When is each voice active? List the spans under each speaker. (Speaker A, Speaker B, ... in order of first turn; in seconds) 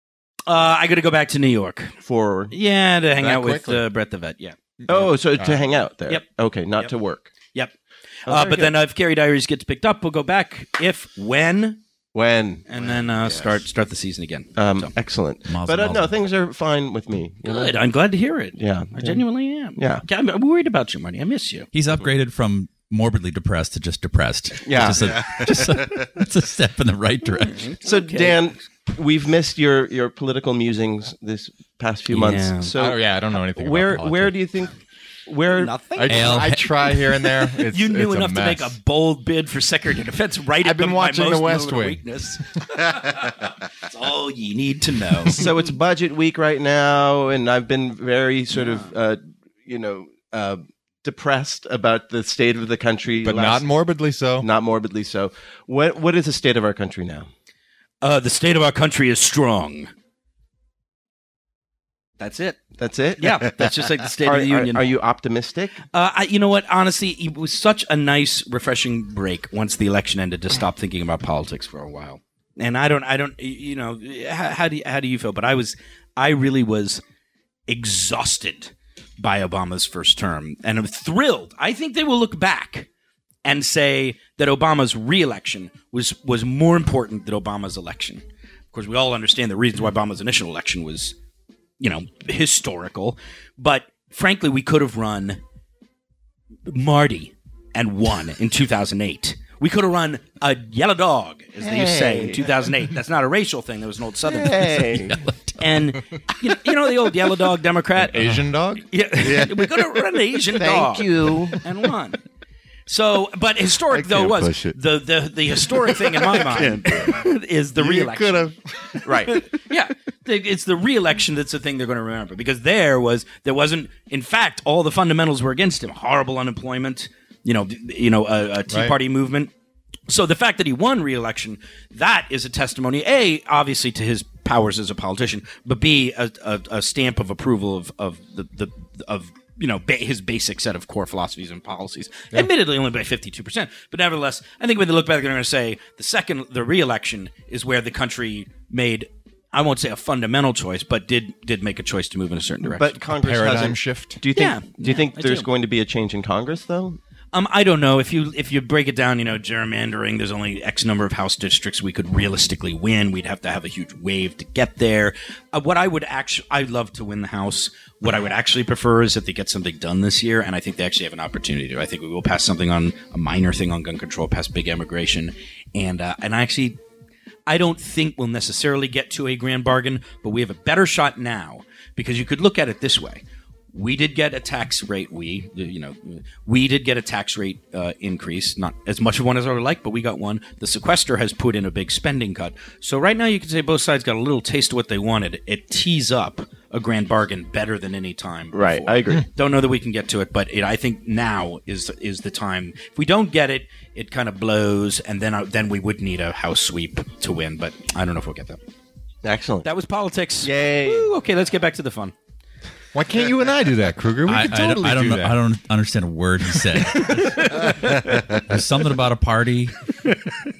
Speaker A: 0.5-2.0, 2.5-4.6, 8.3-11.8, 12.7-14.9, 17.4-21.7, 27.5-28.4, 32.1-32.7, 35.5-36.5, 37.2-45.5, 48.5-48.9, 58.0-59.9, 62.2-62.6, 63.2-64.9, 65.9-77.0, 77.7-82.9, 83.5-91.2, 91.8-95.4, 96.7-104.9, 105.6-112.2, 112.9-118.5, 119.3-129.5, 130.1-153.0, 154.3-155.5, 157.3-176.8, 177.5-208.6, 209.6-212.1, 217.0-218.3, 220.1-220.4
Speaker B: 2.0-2.5, 4.9-7.3, 8.3-8.8, 12.1-12.7, 14.6-17.8, 18.6-19.2, 19.8-20.0, 24.6-25.3, 27.8-34.8, 35.3-35.7, 45.3-53.7, 54.4-57.3, 62.8-63.5, 64.2-65.8, 101.6-102.5, 104.3-105.2, 110.5-111.6, 119.0-119.4, 152.6-157.0, 198.5-199.3, 209.2-209.7, 210.4-211.1
Speaker C: 3.2-3.8, 4.8-5.6, 32.8-34.4, 36.0-38.8, 40.6-42.0, 53.2-54.5, 108.0-108.9, 128.7-129.0, 153.2-154.2, 212.9-215.4
Speaker D: 12.9-13.5, 25.0-26.1, 109.2-109.9, 113.9-114.8, 115.6-119.0
Speaker E: 15.5-16.1, 21.7-27.7, 36.0-36.7, 104.9-105.8, 214.2-217.7, 218.3-219.7